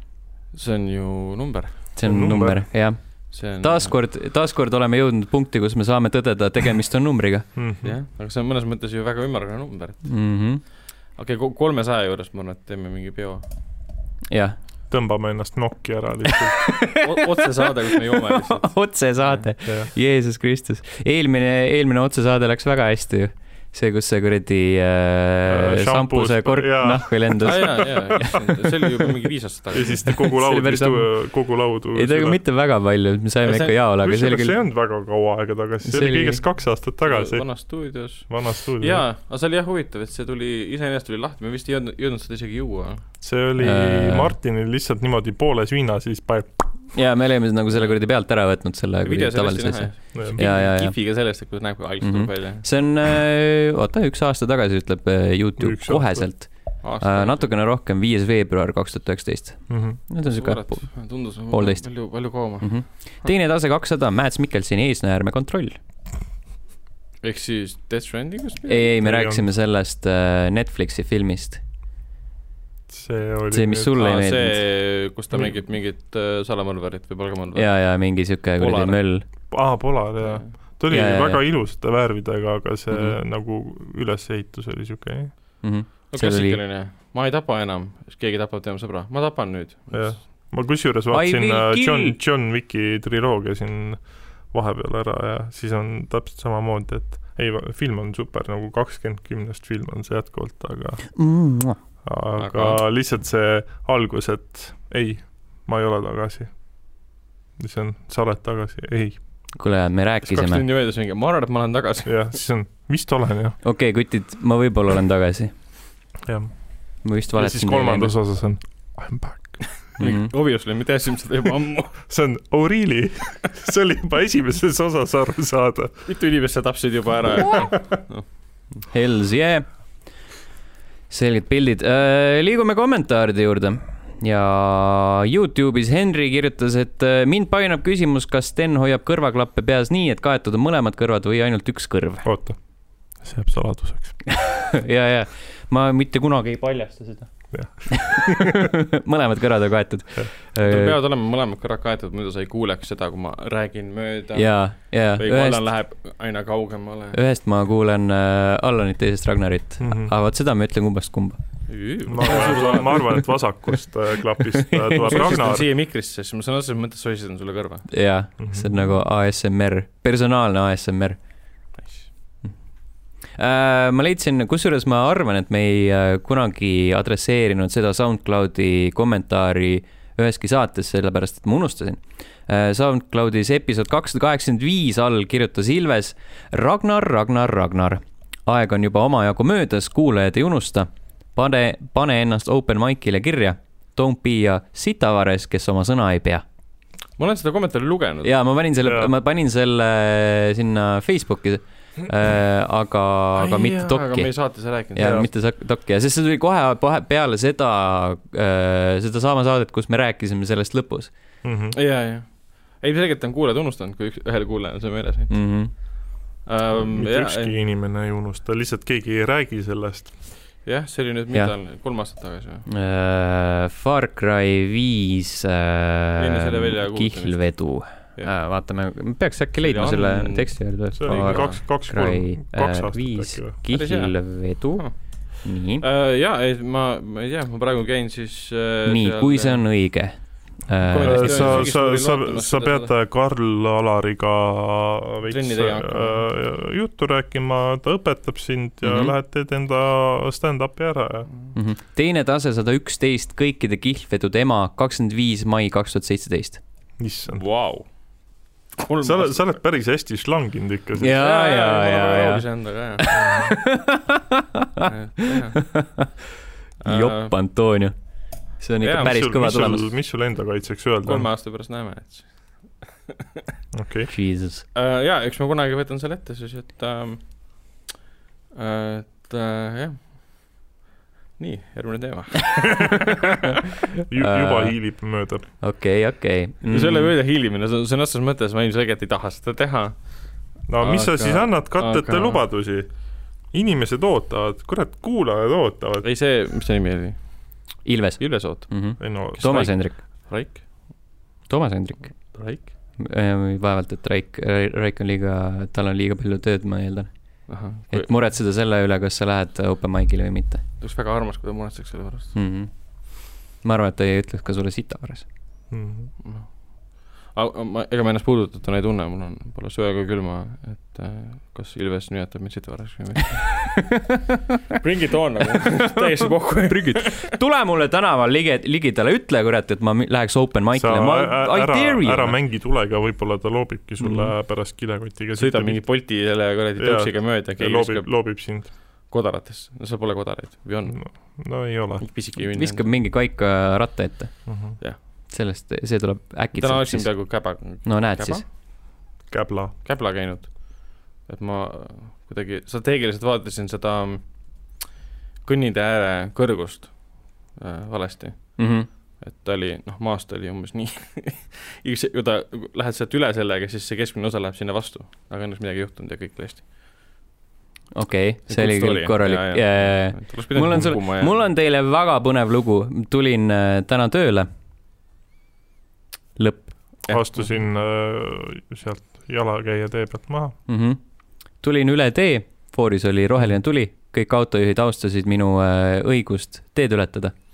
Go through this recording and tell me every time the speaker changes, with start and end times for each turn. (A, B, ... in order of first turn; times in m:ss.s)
0:00.5-0:01.9 A
0:02.0-0:07.5 B
0:02.0-0:02.7 C
0:03.3-0:03.9 A
0:07.6-0:08.0 C
0:07.8-0:10.1 A
0:10.0-0:10.6 B
0:11.2-0:13.4 A
0:14.3-0:14.6 B
0:14.9-0:16.8 C
0:16.6-0:28.4 B
0:17.0-0:19.5 A
0:19.7-0:19.9 C
0:25.5-0:28.4 C
0:27.4-0:30.2 A
0:29.7-0:32.4 C
0:30.2-0:34.6 B
0:33.4-0:33.8 A
0:34.0-0:39.0 C
0:35.8-0:36.4 B
0:37.0-0:43.1 A
0:43.2-0:46.9 C
0:43.6-0:44.4 B
0:46.9-0:51.4 B
0:49.0-0:52.7 A
0:50.1-0:50.4 C
0:52.0-1:05.8 B
0:55.6-0:56.3 C
0:56.8-0:57.6 A
0:59.7-1:00.0 C
1:00.2-1:03.3 A
1:07.2-1:08.9 A
1:08.7-1:11.6 B
1:09.0-1:09.5 C
1:12.9-1:13.9 C
1:13.5-1:14.6 B
1:14.0-1:19.3 A
1:17.6-1:19.2 B
1:19.5-1:25.4 C
1:20.2-1:20.5 A
1:20.9-1:21.4 B
1:25.6-1:26.6 B
1:26.1-1:30.2 A
1:29.9-1:41.2 C
1:31.1-1:32.2 B
1:41.2-1:41.8 B
1:42.0-1:46.8 C
1:42.4-1:42.8 A
1:47.6-1:49.2 C
1:49.6-1:50.6 B
1:50.3-1:52.4 A
1:52.1-1:53.6 C
1:53.6-1:55.5 B
1:56.2-1:59.7 C
1:57.0-1:58.2 B
1:59.8-2:02.0 A
2:00.0-2:00.3 B
2:02.1-2:06.0 C
2:06.1-2:08.8 A
2:08.9-2:09.9 B
2:11.1-2:22.3 B
2:22.2-2:24.3 C
2:24.4-2:31.0 B
2:27.5-2:28.6 C
2:30.6-2:37.2 A
2:34.4-2:35.7 B
2:37.1-2:41.4 B
2:39.8-2:40.1 C
2:41.7-2:43.2 A
2:42.1-2:45.6 C
2:42.2-2:43.1 B
2:44.6-2:45.2 B
2:45.0-2:48.0 A
2:47.9-2:51.2 B
2:48.4-2:49.0 C
2:51.8-2:52.1 A
2:53.2-3:16.4 B
3:17.2-3:18.4 A
3:18.2-3:31.1 B
3:18.8-3:19.1 C
3:23.4-3:25.2 A
3:25.0-3:25.3 C
3:31.4-3:31.8 C
3:31.7-3:37.5 A
3:35.3-3:35.7 B
3:36.8-3:40.2 C
3:40.6-3:42.7 A
3:42.7-3:55.8 B
3:46.2-3:48.3 A
3:49.6-3:51.6 A
3:50.9-3:53.6 C
3:53.7-3:59.7 A
3:58.9-4:01.7 B
4:00.8-4:02.9 A
4:01.0-4:11.3 C
4:05.3-4:06.2 A
4:08.8-4:09.1 B
4:11.5-4:16.6 B
4:17.0-4:17.4 C
4:17.3-4:19.6 A
4:19.0-4:21.2 C
4:21.0-4:22.5 B
4:21.1-4:23.1 A
4:23.0-4:24.9 B
4:23.1-4:23.6 C
4:24.8-4:25.8 A
4:25.6-4:26.1 B
4:26.8-4:27.3 A
4:26.8-4:27.9 B
4:28.6-4:29.9 B
4:28.8-4:29.2 A
4:29.0-4:31.3 C
4:31.1-4:32.7 A
4:33.7-4:34.1 C
4:34.1-4:34.6 B
4:34.7-4:37.7 A
4:38.5-4:40.2 A
4:41.4-4:43.5 A
4:44.1-4:45.5 C
4:44.2-4:45.0 B
4:45.6-4:47.1 B
4:46.7-4:50.2 A
4:50.7-4:56.1 C
4:50.8-4:52.4 A
4:56.0-5:01.0 A
4:57.8-5:00.3 B
4:59.0-4:59.8 C
5:01.4-5:10.6 B
5:02.2-5:02.7 A
5:07.5-5:08.1 A
5:10.8-5:12.4 A
5:12.3-5:15.2 B
5:15.7-5:16.1 C
5:16.2-5:23.9 A
5:24.7-5:27.4 A
5:26.7-5:32.4 B
5:30.8-5:35.8 C
5:34.0-5:34.3 B
5:35.4-5:42.9 A
5:36.8-5:38.7 C
5:40.9-5:42.1 C
5:42.4-5:48.4 B
5:44.5-5:44.8 C
5:46.6-5:48.5 A
5:49.3-5:49.8 C
5:49.8-5:54.8 A
5:55.4-6:06.7 A
5:58.6-5:58.9 B
6:07.9-6:14.5 B
6:08.5-6:11.4 A
6:16.4-6:16.9 B
6:17.0-6:17.5 A
6:17.1-6:20.6 C
6:20.7-6:27.3 B